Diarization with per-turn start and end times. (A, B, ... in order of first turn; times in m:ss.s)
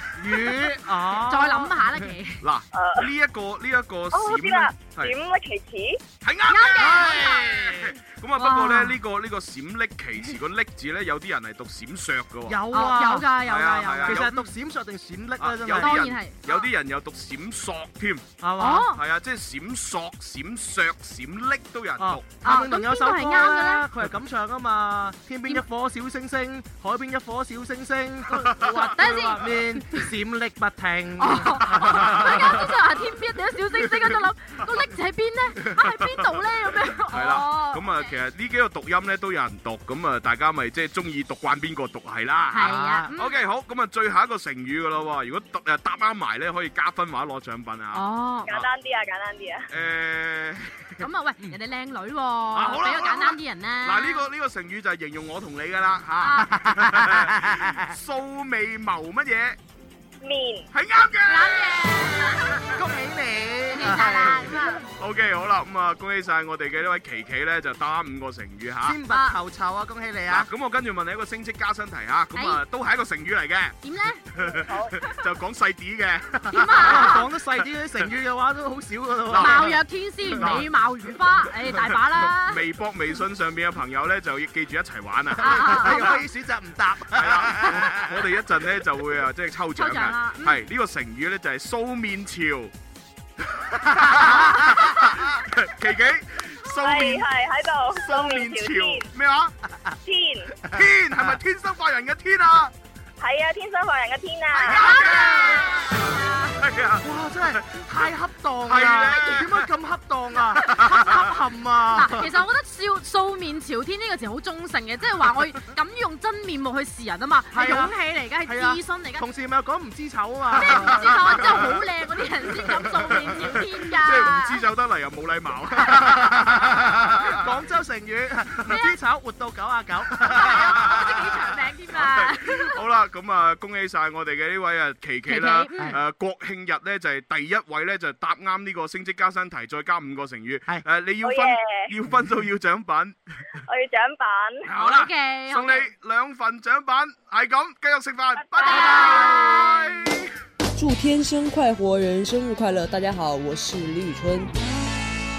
0:00.2-0:01.9 A
0:01.3-0:02.4 B
0:02.4-0:05.1 C
0:02.7-0:03.1 D
0:04.1-0:06.0 D
0:06.2-0:12.6 C
0:06.5-0:07.5 B
0:06.8-0:07.9 A
0:08.4-0:08.9 B
0:12.5-0:13.3 A
0:12.7-0:14.2 B
0:13.4-0:14.5 C
0:14.0-0:16.0 A
0:15.4-0:18.3 C
0:15.7-0:16.7 B
0:18.4-0:18.9 A
0:18.6-0:19.0 B
0:18.9-0:22.2 C
0:22.0-0:32.6 A
0:22.4-0:23.8 B
0:28.4-0:28.9 C
0:28.6-0:29.6 B
0:31.2-0:38.2 B
0:31.7-0:32.6 C
0:36.0-0:36.3 C
0:36.9-0:48.7 C
0:42.5-0:43.3 B
0:42.6-0:43.1 A
0:47.9-0:48.5 B
0:48.5-0:49.6 D
0:49.7-0:51.0 C
0:51.0-0:54.2 B
0:52.5-0:59.6 C
0:56.2-0:56.5 B
0:56.5-0:57.8 A
1:00.2-1:00.7 D
1:00.7-1:02.6 C
1:01.3-1:02.7 B
1:02.7-1:04.8 A
1:03.7-1:04.8 B
1:03.8-1:09.0 C
1:08.8-1:10.5 A
1:10.3-1:13.8 C
1:12.3-1:12.6 B
1:13.8-1:14.2 B
1:14.4-1:17.2 C
1:14.7-1:15.0 D
1:16.4-1:19.8 A
1:16.5-1:17.2 B
1:19.3-1:19.8 C
1:19.3-1:22.6 B
1:20.3-1:20.7 C
1:22.3-1:26.2 C
1:25.4-1:26.1 B
1:25.4-1:28.2 A
1:27.1-1:32.7 C
1:29.8-1:30.6 B
1:33.6-1:37.3 C
1:33.9-1:35.0 A
1:36.8-1:39.0 D
1:37.9-1:39.5 C
1:40.0-1:40.5 D
1:40.7-1:41.3 A
1:40.7-1:42.7 C
1:43.2-1:44.8 D
1:44.6-1:48.1 C
1:44.6-1:46.5 B
1:47.0-1:52.4 A
1:48.7-1:49.7 C
1:50.5-1:51.2 C
1:51.9-1:59.2 B
1:57.5-1:57.9 A
1:58.4-2:01.5 A
2:00.6-2:04.6 B
2:00.6-2:01.8 C
2:03.1-2:07.4 C
2:05.9-2:11.1 A
2:08.6-2:09.0 B
2:10.2-2:12.8 B
2:10.3-2:23.2 C
2:15.3-2:15.9 B
2:21.2-2:21.9 D
2:23.7-2:24.6 D
2:24.7-2:30.3 C
2:24.8-2:25.9 B
2:28.6-2:28.8 D
2:28.6-2:29.9 B
2:30.8-2:34.5 E